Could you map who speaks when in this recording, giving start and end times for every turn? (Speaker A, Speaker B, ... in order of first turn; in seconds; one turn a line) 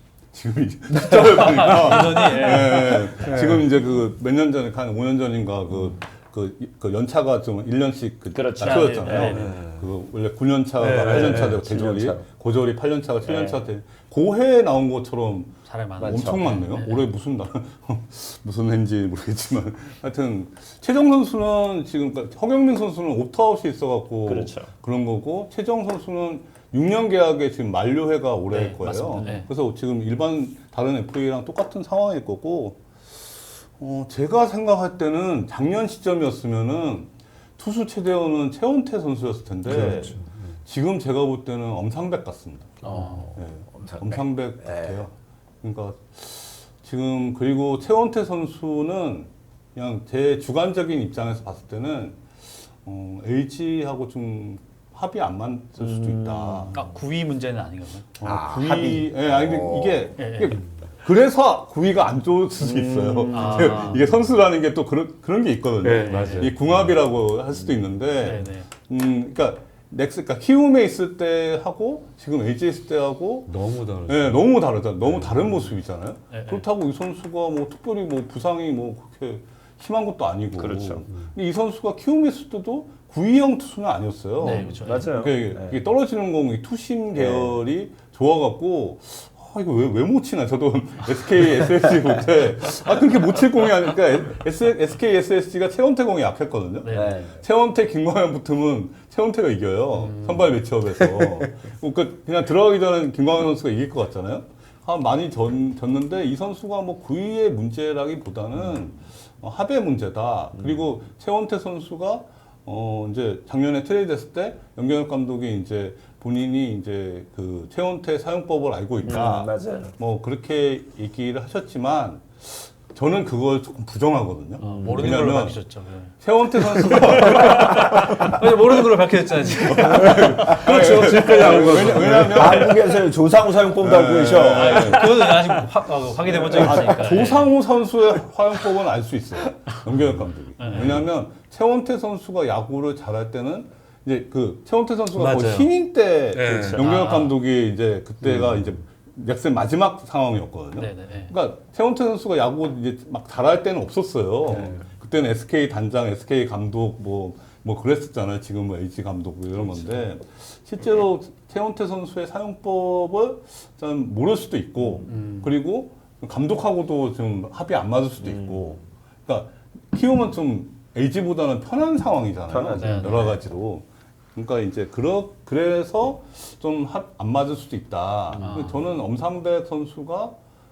Speaker A: 0.3-56.8
Speaker B: 1.2-3.4
Speaker C: 3.2-3.6
Speaker D: 8.3-9.3
Speaker B: 8.6-9.6
Speaker C: 9.3-9.9
Speaker C: 10.8-11.6
Speaker D: 10.9-12.2
Speaker D: 13.2-13.6
Speaker B: 15.7-17.0
Speaker D: 16.0-16.5
Speaker D: 24.2-24.7
Speaker B: 28.5-29.5
Speaker C: 39.6-40.5
Speaker D: 42.8-45.1
Speaker D: 55.8-56.9
Speaker B: 56.7-58.1
Speaker A: 58.2-73.5
Speaker D: 58.2-60.1
Speaker B: 60.2-60.6
Speaker D: 62.6-63.6
Speaker B: 63.3-64.1
Speaker C: 65.8-66.9
Speaker B: 66.0-66.5
Speaker B: 68.2-68.7
Speaker C: 73.5-74.5
Speaker A: 74.1-125.6
Speaker C: 75.0-75.6
Speaker B: 76.3-76.6
Speaker D: 80.6-81.0
Speaker B: 84.4-85.1
Speaker D: 84.5-85.8
Speaker D: 87.1-87.6
Speaker B: 96.8-97.2
Speaker D: 96.9-97.4
Speaker B: 99.9-100.6
Speaker D: 110.5-110.9
Speaker D: 119.0-119.9
Speaker D: 124.6-125.1
Speaker B: 124.6-131.8
Speaker A: 126.2-127.8
Speaker C: 127.0-128.3
Speaker A: 129.7-132.9
Speaker C: 129.8-132.8
Speaker D: 131.6-135.2
Speaker A: 133.8-135.3
Speaker B: 134.5-137.5
Speaker D: 136.3-136.8
Speaker A: 136.5-180.3
Speaker B: 140.6-141.1
Speaker C: 140.7-141.0
Speaker C: 145.1-145.7
Speaker C: 146.3-146.8
Speaker D: 146.5-146.8
Speaker B: 146.7-147.4
Speaker C: 148.2-148.7
Speaker B: 150.8-151.3
Speaker D: 154.5-154.8
Speaker B: 159.7-160.0
Speaker B: 165.0-165.5
Speaker D: 168.2-168.8
Speaker D: 172.5-173.4
Speaker B: 172.7-173.3
Speaker D: 178.3-178.7
Speaker B: 178.4-178.8